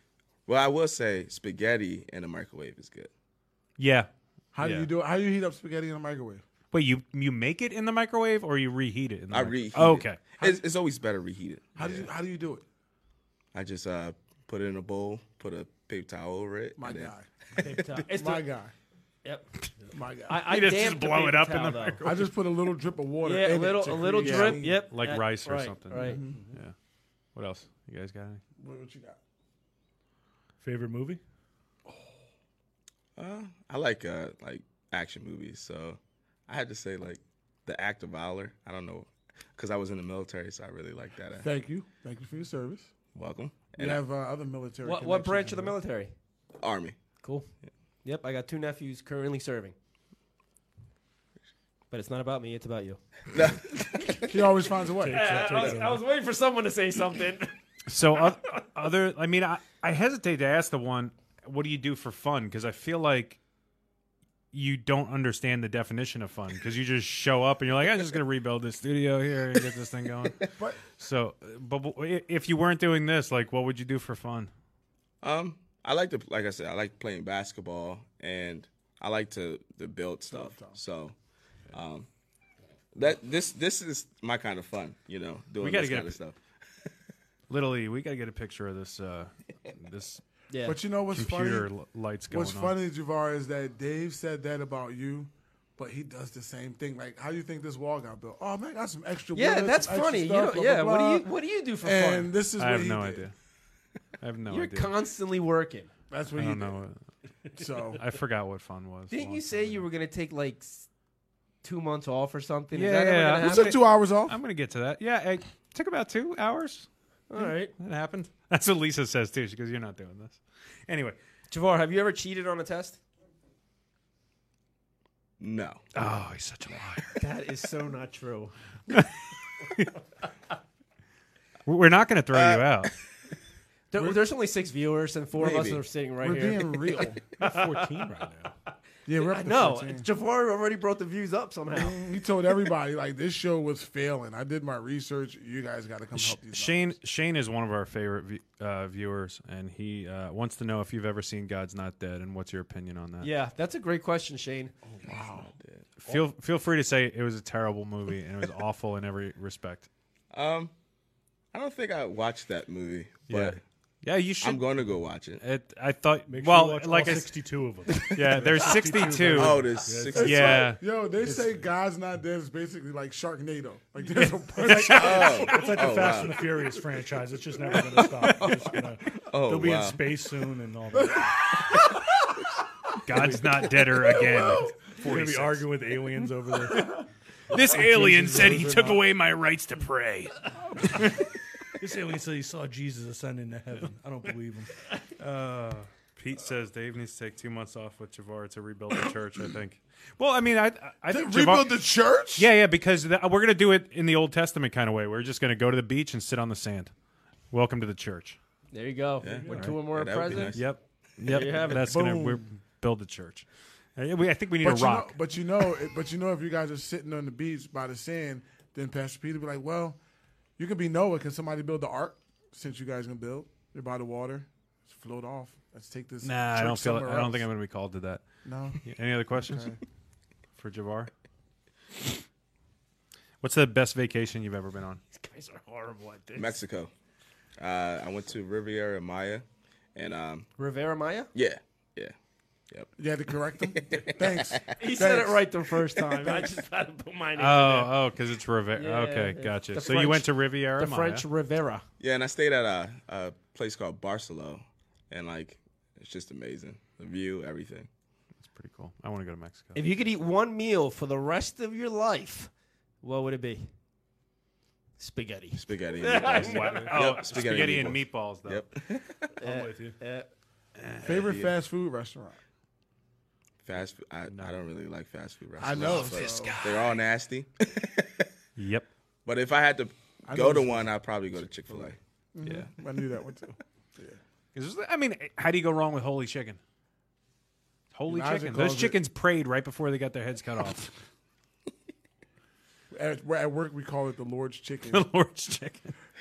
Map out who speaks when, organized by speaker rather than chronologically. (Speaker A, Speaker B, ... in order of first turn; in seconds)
Speaker A: 0.5-3.1, 9.3-11.7, 13.5-17.1, 33.2-41.5, 43.1-44.0, 46.6-47.0, 53.3-54.3, 75.2-81.1, 81.7-82.1, 82.9-86.4, 125.4-125.8, 132.3-132.9, 135.4-135.8, 155.6-155.8, 160.3-160.7, 161.5-163.6, 164.4-165.4, 169.3-170.7, 174.8-176.5, 179.2-180.1, 209.2-210.7, 236.3-236.9, 237.6-240.5, 241.3-242.1, 243.7-244.7, 252.0-257.9, 265.5-269.3, 271.2-271.4, 273.6-278.3, 279.2-282.0
Speaker B: 3.8-4.1, 4.6-4.9, 6.7-10.2, 20.5-22.3, 24.2-26.7, 27.3-28.4, 57.9-63.4, 64.5-74.5, 85.6-86.2, 87.5-90.2, 91.1-92.7, 102.6-103.3, 104.2-104.9, 106.3-107.0, 107.9-109.8, 112.7-116.9, 117.7-121.2, 125.9-127.2, 131.7-132.9, 146.1-153.3, 156.0-159.9, 163.3-164.8, 165.4-167.3, 168.0-169.6, 170.1-171.5, 174.1-176.2, 177.8-178.7, 183.0-185.7, 186.7-191.2, 195.2-201.7, 202.3-206.9, 207.5-208.4, 209.5-209.7, 210.5-213.4, 214.0-215.2, 226.2-228.2, 228.8-229.8, 230.6-231.1, 233.4-235.0, 247.4-251.2, 258.5-259.8, 266.1-268.6, 270.8-271.4, 274.3-274.6, 275.8-276.8, 278.6-278.9, 282.4-282.7, 284.5-286.6, 287.9-290.9, 294.9-295.9
Speaker C: 4.5-6.4, 11.8-12.6, 16.8-17.3, 17.9-18.7, 19.9-20.5, 22.0-24.8, 25.9-26.4, 28.6-29.2, 41.4-42.9, 43.8-45.8, 54.3-55.5, 70.5-70.8, 80.3-80.8, 90.7-91.7, 92.3-101.2, 101.8-103.2, 106.1-106.8, 107.5-108.0, 113.4-114.4, 136.2-137.2, 139.1-140.1, 141.7-146.9, 154.9-155.5, 168.3-168.7, 170.1-175.6, 181.0-181.3, 184.2-184.7, 201.1-202.5, 211.6-212.4, 214.6-220.0, 220.6-227.5, 228.4-229.8, 243.0-246.5, 271.0-272.4, 275.6-276.6, 280.3-284.2, 288.1-289.0, 292.9-295.1
Speaker D: 17.6-18.4, 19.2-19.5, 20.3-22.0, 23.2-26.2, 44.8-46.1, 47.2-47.5, 48.0-49.7, 51.9-53.0, 55.1-57.5, 90.5-90.8, 99.3-102.3, 104.5-105.9, 109.1-110.9, 111.6-113.7, 117.3-117.7, 121.5-123.0, 127.2-128.5, 133.9-138.1, 139.2-142.0, 153.2-154.7, 208.7-210.6, 211.2-212.0, 235.1-236.6, 240.6-241.3, 244.8-247.9, 248.7-251.8, 259.7-262.5, 263.0-263.7, 265.0-267.4, 269.4-270.3
Speaker E: 26.3-26.6, 30.6-31.2, 55.0-56.0, 137.4-138.5, 166.3-170.3, 175.4-181.8, 183.1-187.0, 187.5-189.0, 191.8-194.9, 269.4-270.0